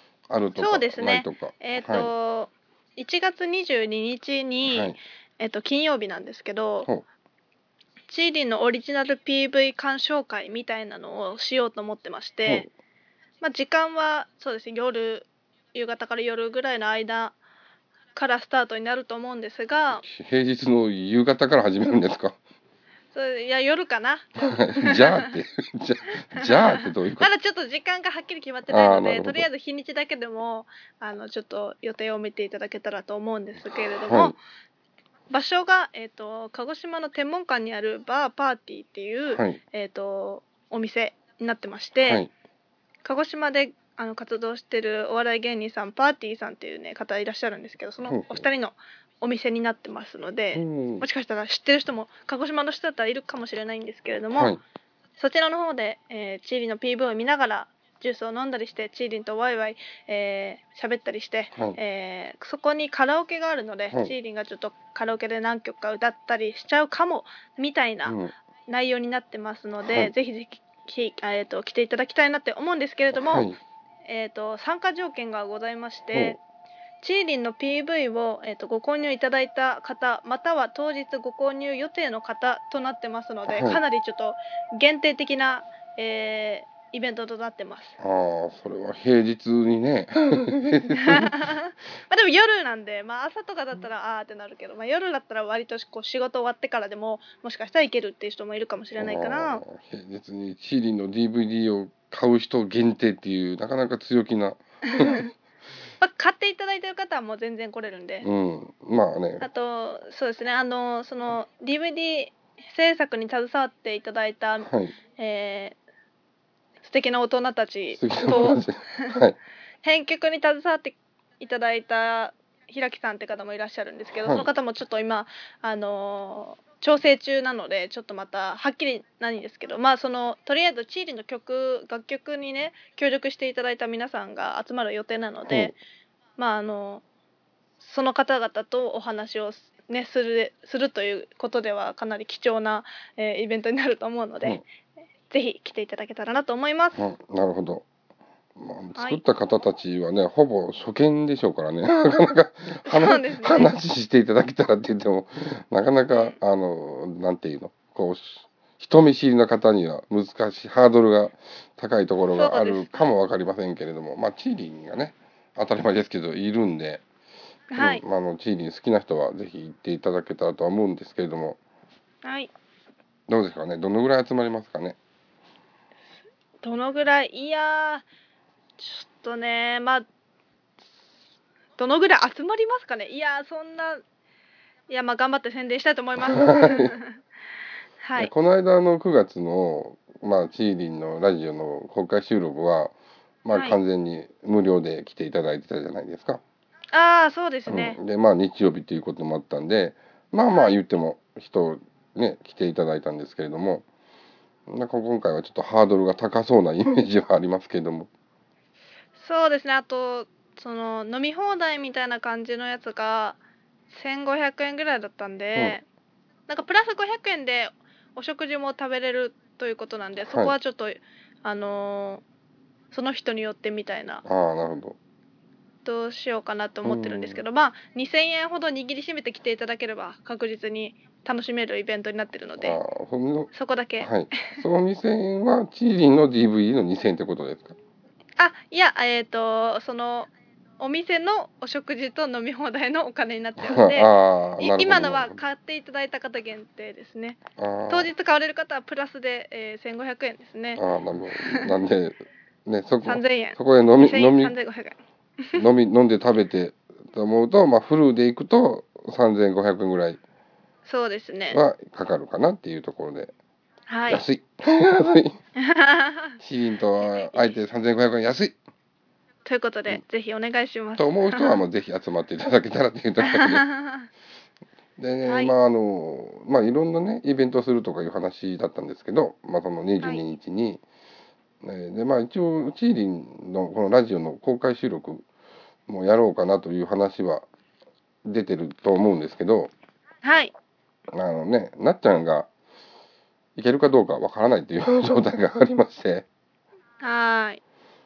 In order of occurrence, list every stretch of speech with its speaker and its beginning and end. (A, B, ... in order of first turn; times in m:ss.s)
0:00.3-0:02.1 A
0:00.6-0:06.9 B
0:04.6-0:05.0 A
0:08.1-0:12.7 B
0:13.4-0:17.4 B
0:18.1-0:20.0 B
0:20.0-0:22.4 A
0:23.1-0:25.3 B
0:24.4-0:27.3 A
0:26.4-0:34.4 B
0:28.7-0:29.5 A
0:34.1-0:34.4 A
0:35.3-0:42.2 B
0:39.3-0:39.6 A
0:43.0-0:54.5 B
0:48.0-0:48.4 A
0:50.5-0:51.0 A
0:54.3-0:54.6 A
0:55.2-1:13.5 B
1:08.0-1:08.3 A
1:09.8-1:10.1 A
1:13.2-1:13.6 A
1:14.0-1:16.4 B
1:17.0-1:28.0 B
1:23.5-1:23.8 A
1:28.0-1:31.5 A
1:31.0-1:39.6 B
1:39.0-1:45.3 A
1:44.9-1:45.3 B
1:46.0-1:48.3 B
1:48.2-1:49.5 A
1:49.4-1:55.8 B
1:54.6-1:54.9 A
1:56.8-1:59.2 B
1:58.0-1:59.4 A
1:59.8-2:15.8 B
2:15.5-2:15.7 A
2:16.4-2:17.0 B
2:17.8-2:24.6 B
2:25.3-2:27.0 B
2:27.0-2:27.8 A
2:28.6-2:47.0 A
2:32.8-2:33.7 B
2:42.3-2:43.1 B
2:47.7-2:48.0 B
2:47.8-2:51.6 A
2:52.2-2:52.5 B
2:53.3-2:55.0 A
2:56.6-2:58.0 B
2:58.8-3:00.0 B
3:01.8-3:04.0 B
3:04.9-3:07.2 B
3:06.2-3:07.0 A
3:08.0-3:08.3 B
3:08.2-3:16.4 A
3:16.9-3:18.0 B
3:17.7-3:23.8 A
3:20.5-3:20.8 B
3:24.7-3:28.1 A
3:29.2-3:33.4 B
3:33.9-3:35.8 B
3:36.5-3:42.2 B
3:40.3-3:40.5 A
3:42.9-3:44.2 B
3:44.2-3:45.0 A
3:45.8-3:52.8 B
3:46.8-3:47.4 A
3:52.6-3:57.8 A
3:53.5-3:54.2 B
3:58.4-4:10.8 B
4:03.6-4:05.4 A
4:07.6-4:08.1 A
4:10.8-4:14.6 A
4:11.4-4:11.7 B
4:13.0-4:15.6 B
4:15.5-4:20.2 A
4:20.8-4:21.6 B
4:21.5-4:23.3 A
4:23.9-4:24.2 B
4:24.1-4:25.4 A
4:25.6-4:26.4 B
4:26.4-4:28.6 A
4:27.1-4:27.5 B
4:29.4-4:31.6 B
4:31.0-4:33.7 A
4:33.2-4:34.1 B
4:35.0-4:40.8 A
4:35.3-4:35.5 B
4:41.6-4:45.2 A
4:45.9-4:47.4 A
4:48.2-4:49.7 A
4:50.2-4:50.5 B
4:51.1-4:52.5 A
4:53.6-4:56.2 A
4:57.0-4:57.6 B